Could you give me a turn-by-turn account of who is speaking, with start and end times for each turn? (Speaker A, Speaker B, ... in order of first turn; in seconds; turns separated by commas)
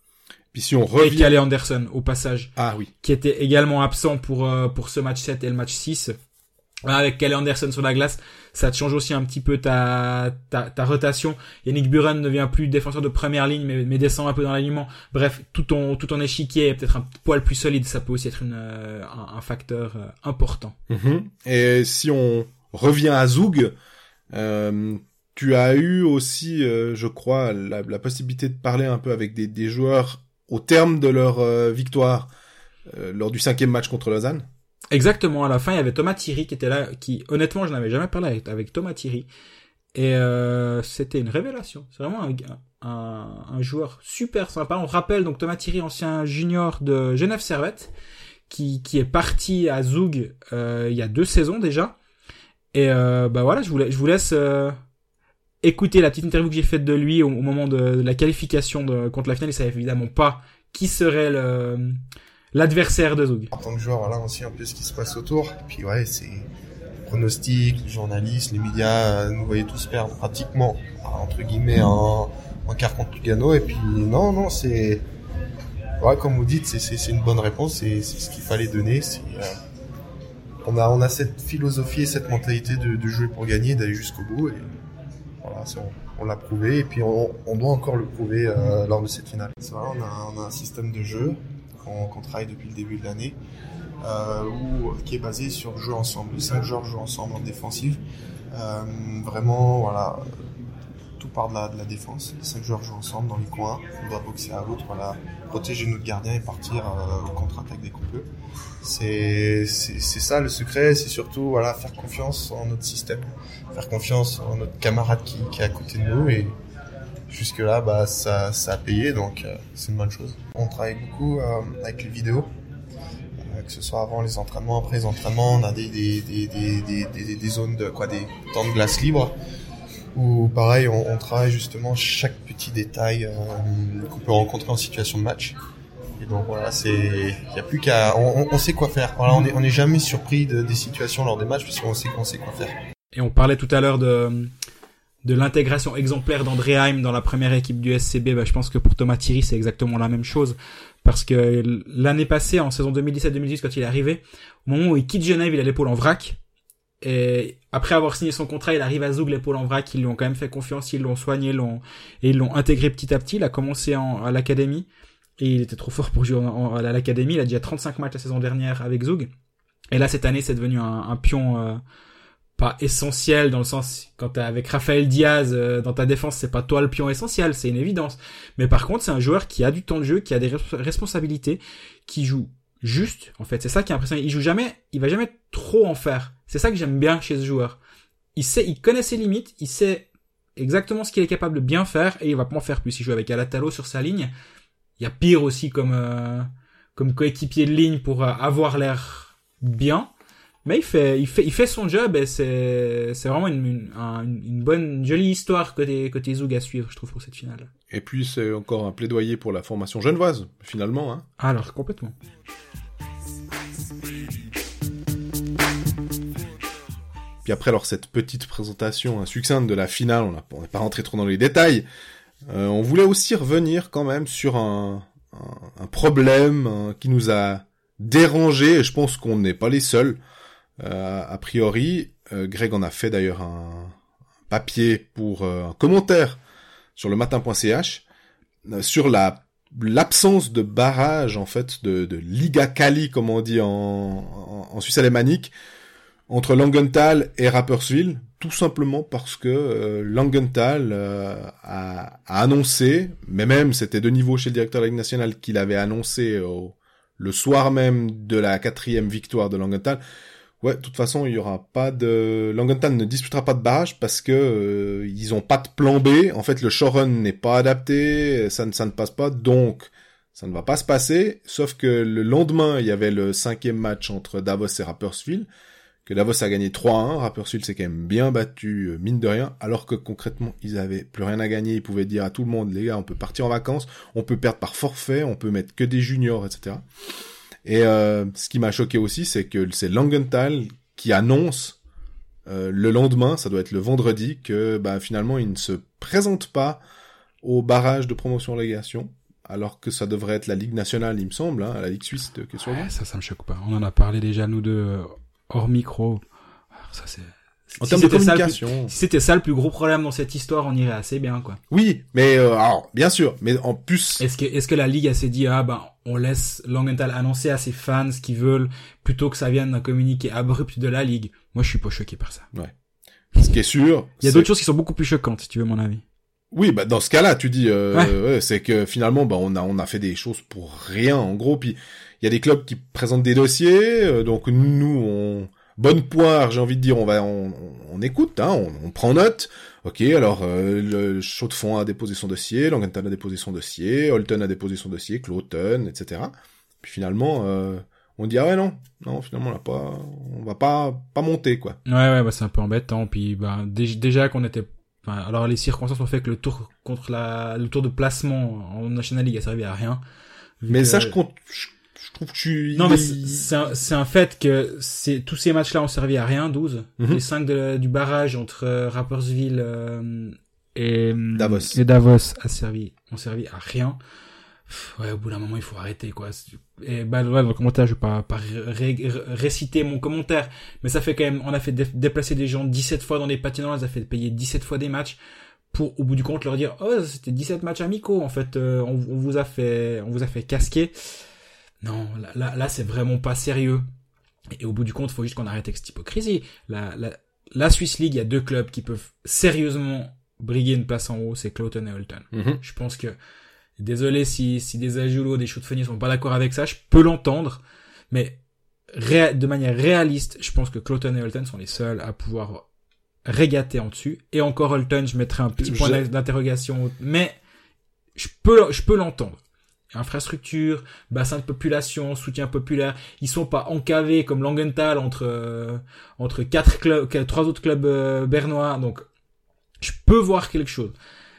Speaker A: 0.5-1.4, Speaker B: 1.0-2.5, Speaker A: 2.6-2.9, Speaker B: 3.0-6.1, Speaker B: 6.9-20.8, Speaker A: 20.9-23.7, Speaker A: 24.3-32.3, Speaker A: 32.9-34.5, Speaker B: 34.9-39.3, Speaker B: 39.9-47.9, Speaker B: 48.5-51.9, Speaker B: 52.7-54.8, Speaker B: 55.6-62.0, Speaker B: 62.5-63.5, Speaker C: 63.5-66.5, Speaker C: 67.1-75.0, Speaker C: 76.0-79.6, Speaker C: 80.7-84.7, Speaker C: 85.4-93.4, Speaker C: 94.0-98.0, Speaker C: 98.5-100.3, Speaker C: 101.2-108.3, Speaker C: 108.8-116.5, Speaker C: 117.3-122.5, Speaker C: 123.5-129.3, Speaker C: 130.2-135.6, Speaker C: 136.2-142.8, Speaker B: 143.1-144.5, Speaker B: 145.2-156.4, Speaker B: 157.0-164.9, Speaker B: 165.4-169.3, Speaker B: 169.9-171.8, Speaker B: 172.6-187.8, Speaker B: 188.4-194.3, Speaker B: 195.0-200.1, Speaker B: 200.7-207.7, Speaker A: 207.9-211.3, Speaker B: 211.4-212.2, Speaker A: 217.4-221.8, Speaker A: 222.5-230.2, Speaker A: 230.8-233.9, Speaker A: 234.5-236.4, Speaker A: 237.0-238.0, Speaker A: 238.7-245.5, Speaker A: 246.3-260.0, Speaker A: 260.6-275.5, Speaker A: 276.1-286.9, Speaker A: 287.6-291.8, Speaker A: 292.5-296.8, Speaker A: 297.4-302.9, Speaker B: 302.6-306.2, Speaker B: 306.8-311.6, Speaker A: 307.8-308.9, Speaker A: 311.7-314.2, Speaker B: 314.2-322.5, Speaker A: 323.4-324.5, Speaker B: 324.2-326.0, Speaker A: 326.5-351.8, Speaker B: 351.9-360.0, Speaker B: 360.6-361.2, Speaker A: 360.7-363.5, Speaker B: 362.8-374.0, Speaker A: 371.4-371.8, Speaker B: 374.7-385.2, Speaker B: 385.7-390.9, Speaker B: 391.8-393.9, Speaker B: 394.6-403.1, Speaker A: 402.3-402.6, Speaker B: 403.8-408.4, Speaker B: 408.9-412.7, Speaker B: 413.3-417.4, Speaker A: 415.6-416.0, Speaker B: 418.2-419.4, Speaker B: 419.9-429.0, Speaker B: 429.8-431.0